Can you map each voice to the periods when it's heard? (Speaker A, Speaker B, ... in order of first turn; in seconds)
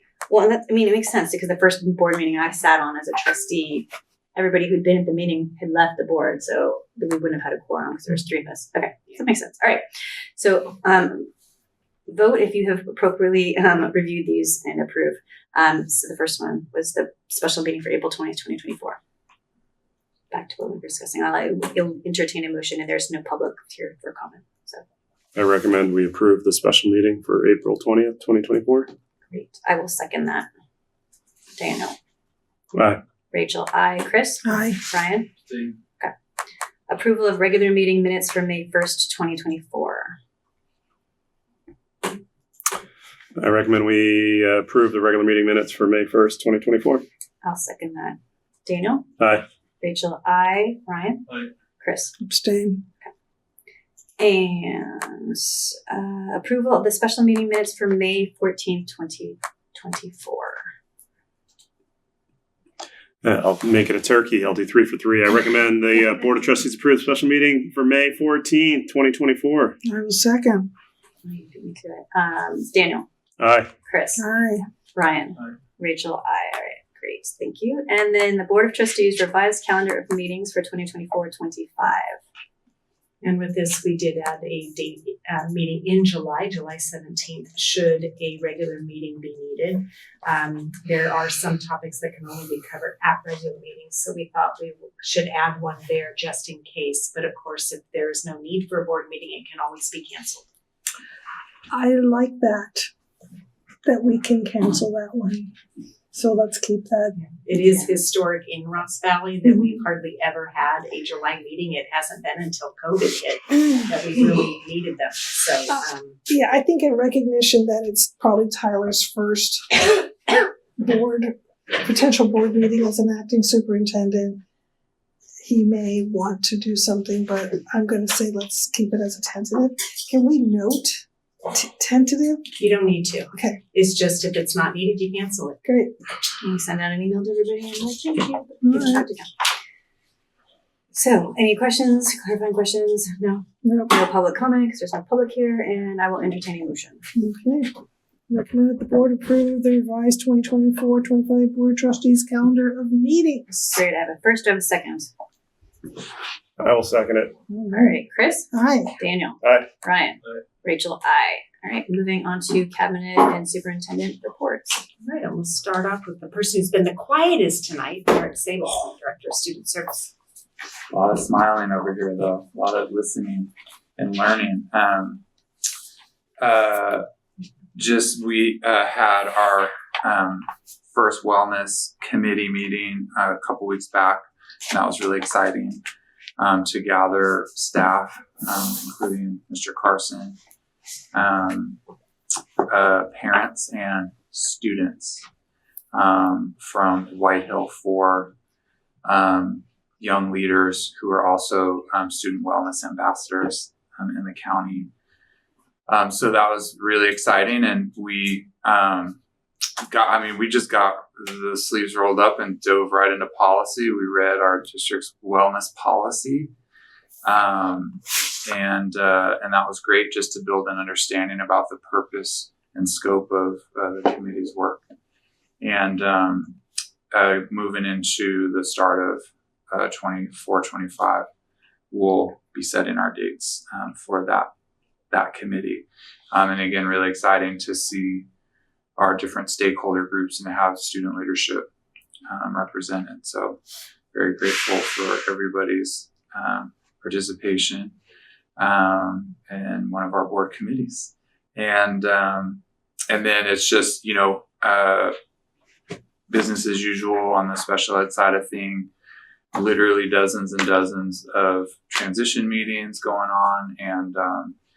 Speaker A: 0.3-9.8, 10.4-11.3, 12.1-19.0, 20.3-24.8, 29.3-30.5, 31.6-32.0, 33.3-35.3, 36.9-40.2, 47.4-49.1, 49.8-51.2, 51.8-52.1, 54.2-60.6, 71.2-73.1, 73.9-74.2, 75.0-82.2, 136.4-139.3, 140.9-147.0, 153.7-155.1, 157.7-164.8
Speaker B: 25.4-28.9, 32.7-33.0, 43.4-47.0, 49.2-49.5, 63.2-69.8, 73.4-73.7, 156.6-157.3, 159.4-159.7
Speaker C: 34.5-34.8, 52.2-52.8, 69.8-70.7, 74.2-74.6, 101.7-102.9, 103.8-105.5, 106.1-107.2, 109.5-109.7, 116.3-124.4, 125.4-132.4, 133.3-133.6, 135.7-135.9, 138.6-139.1, 143.6-144.0, 147.1-147.7, 148.3-153.8, 157.5-158.0, 158.5-159.0
Speaker D: 83.2-100.5, 107.2-116.2, 132.6-135.6, 165.0-170.1
Speaker E: 170.9-175.2, 176.4-177.0, 177.8-185.8, 186.4-190.4, 191.1-191.8, 192.7-195.2, 195.9-198.3, 199.1-204.9, 205.9-209.2, 209.9-216.5, 217.2-224.9, 225.6-226.6, 227.1-231.3, 231.9-234.5, 235.1-238.3, 239.0-241.7, 242.3-243.6, 244.1-247.9, 248.6-255.1, 256.3-258.9, 259.5-264.6